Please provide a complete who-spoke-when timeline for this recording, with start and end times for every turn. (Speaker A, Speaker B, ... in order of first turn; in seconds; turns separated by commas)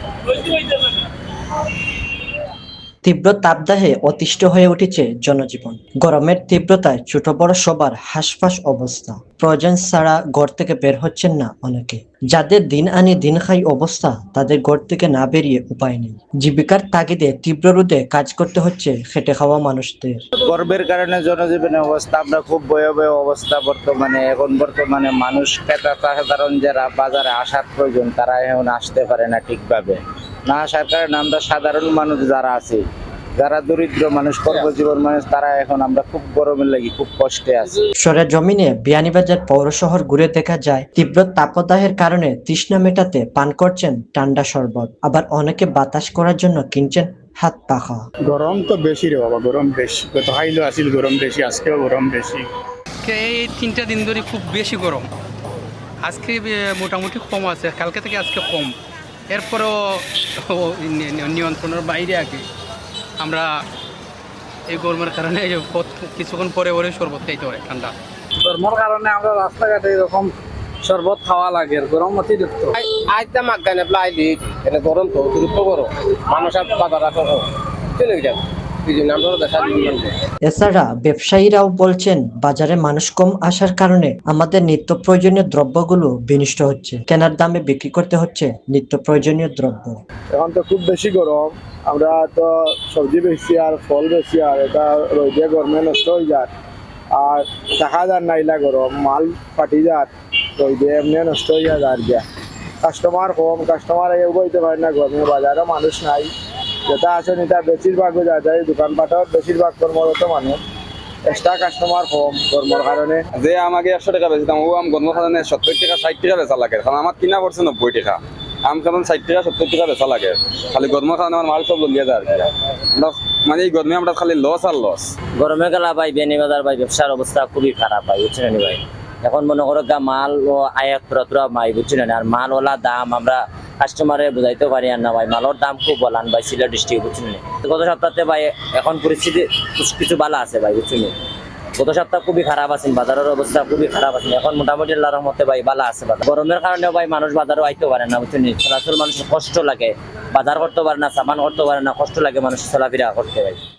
Speaker A: 3.0-20.2, Speaker B: 20.4-32.8, Speaker B: 33.4-37.8, Speaker A: 38.0-48.0, Speaker C: 48.2-52.5, Speaker D: 53.0-55.1, Speaker D: 56.0-58.7, Speaker D: 59.3-62.5, Speaker D: 63.2-63.5, Speaker D: 64.7-67.9, Speaker E: 68.4-70.3, Speaker E: 70.8-72.8, Speaker F: 72.8-77.5, Speaker F: 78.0-80.1, Speaker A: 80.5-90.0, Speaker G: 90.3-96.5, Speaker G: 97.1-102.2, Speaker G: 102.8-106.3, Speaker G: 106.9-110.6, Speaker G: 111.2-113.2, Speaker H: 113.3-125.1, Speaker I: 125.4-141.1, Speaker I: 141.8-153.6